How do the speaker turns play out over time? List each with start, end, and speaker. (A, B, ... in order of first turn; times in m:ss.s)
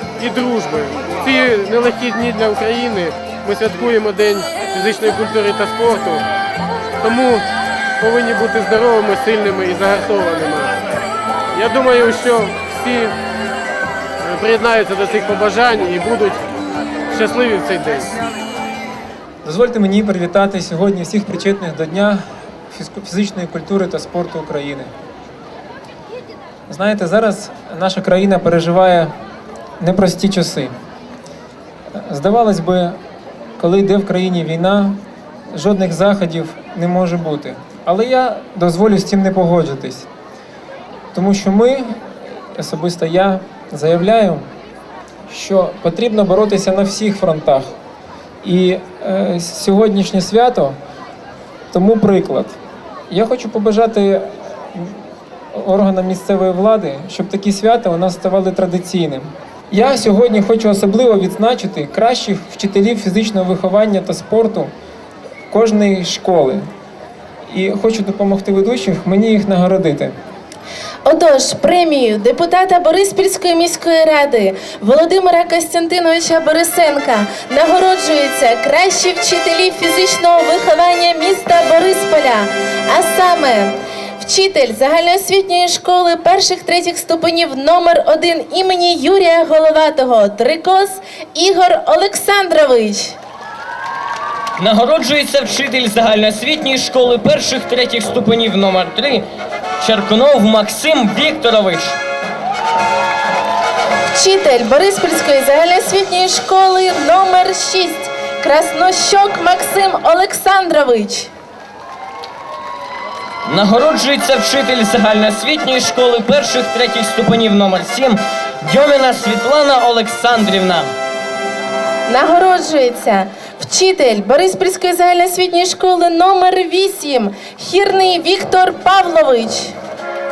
0:00.2-0:06.2 A
0:07.0-0:07.4 A
0:08.0-0:10.7 A
0:11.5-0:13.1 A
0:14.2-0:16.4 A
0:17.1-0:18.1 A
0:19.4-0:24.9 B
0:26.7-0:29.1 B
0:29.8-0:30.7 B
0:31.9-0:33.0 B
0:33.6-0:35.0 B
0:35.5-0:40.1 B
0:41.1-0:44.4 B
0:45.3-0:47.8 B
0:48.4-0:50.8 B
0:51.7-0:52.6 B
0:53.1-0:55.0 B
0:55.5-1:04.7 B
1:05.5-1:06.7 B
1:07.5-1:10.1 B
1:11.0-1:33.2 C
1:34.6-1:39.2 D
1:39.8-1:42.0 D
1:44.1-1:51.3 C
1:53.5-2:00.9 D
2:02.1-2:09.7 C